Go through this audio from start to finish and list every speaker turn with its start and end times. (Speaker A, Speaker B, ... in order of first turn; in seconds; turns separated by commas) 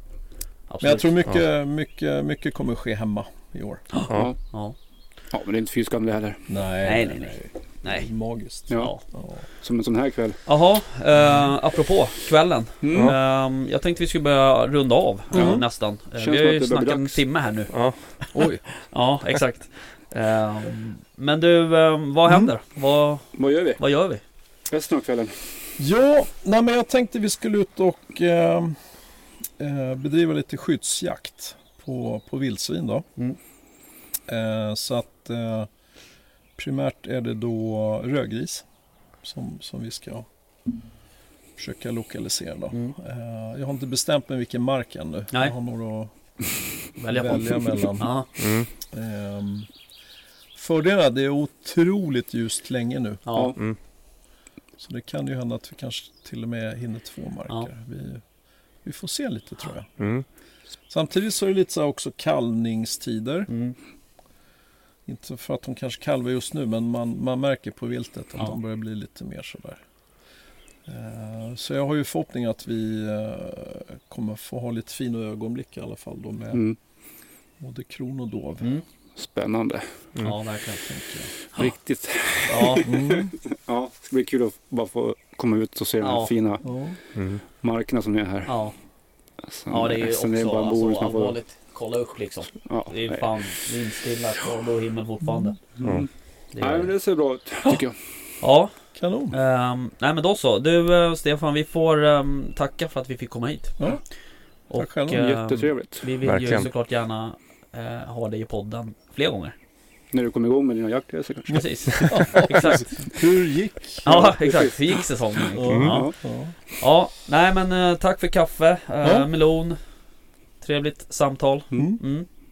Speaker A: 0.7-1.2, Speaker B: 0.8-3.9, Speaker A: 3.9-4.7, Speaker C: 5.3-6.4, Speaker B: 6.5-9.4, Speaker A: 6.8-8.1, Speaker A: 8.7-9.0, Speaker C: 9.6-10.4, Speaker A: 10.4-24.2, Speaker C: 12.8-13.2, Speaker B: 15.3-15.6, Speaker C: 16.2-17.2, Speaker D: 17.7-17.9, Speaker B: 18.3-18.6, Speaker C: 23.3-23.8, Speaker C: 24.7-25.4, Speaker B: 25.8-28.8, Speaker B: 29.6-33.0, Speaker B: 34.3-35.7, Speaker B: 36.6-38.6, Speaker B: 39.2-40.3, Speaker B: 41.6-46.1, Speaker A: 47.0-48.3, Speaker B: 47.1-48.1, Speaker D: 48.4-48.7, Speaker B: 48.9-49.7, Speaker B: 50.5-53.3, Speaker A: 53.2-53.5, Speaker B: 54.8-58.2, Speaker B: 58.8-59.9, Speaker D: 60.0-60.2, Speaker B: 60.9-63.5, Speaker A: 63.5-63.7, Speaker B: 65.1-69.8, Speaker B: 70.8-76.6, Speaker B: 77.6-78.7, Speaker C: 79.2-79.9, Speaker A: 80.2-80.8, Speaker B: 80.8-81.3, Speaker C: 81.5-86.7, Speaker A: 82.5-82.9, Speaker B: 82.8-83.3, Speaker A: 86.0-86.3, Speaker B: 86.6-87.0, Speaker D: 87.1-87.4, Speaker C: 87.5-88.5, Speaker A: 88.5-88.7, Speaker C: 89.5-91.3, Speaker A: 89.7-95.6, Speaker C: 92.6-93.2, Speaker B: 95.2-95.5, Speaker C: 95.8-98.0, Speaker A: 96.5-97.0, Speaker A: 98.4-98.7, Speaker B: 99.0-99.3, Speaker A: 99.3-103.8, Speaker A: 104.7-109.5, Speaker B: 104.7-105.3, Speaker C: 105.1-106.1, Speaker D: 106.2-106.7, Speaker C: 110.1-112.1, Speaker A: 111.5-113.1, Speaker B: 112.0-114.2, Speaker A: 114.0-116.1, Speaker C: 114.0-115.0, Speaker B: 115.5-116.5, Speaker D: 115.7-116.0, Speaker C: 115.9-116.1, Speaker A: 116.8-119.8, Speaker B: 119.0-119.3, Speaker A: 120.6-122.3, Speaker B: 121.7-122.0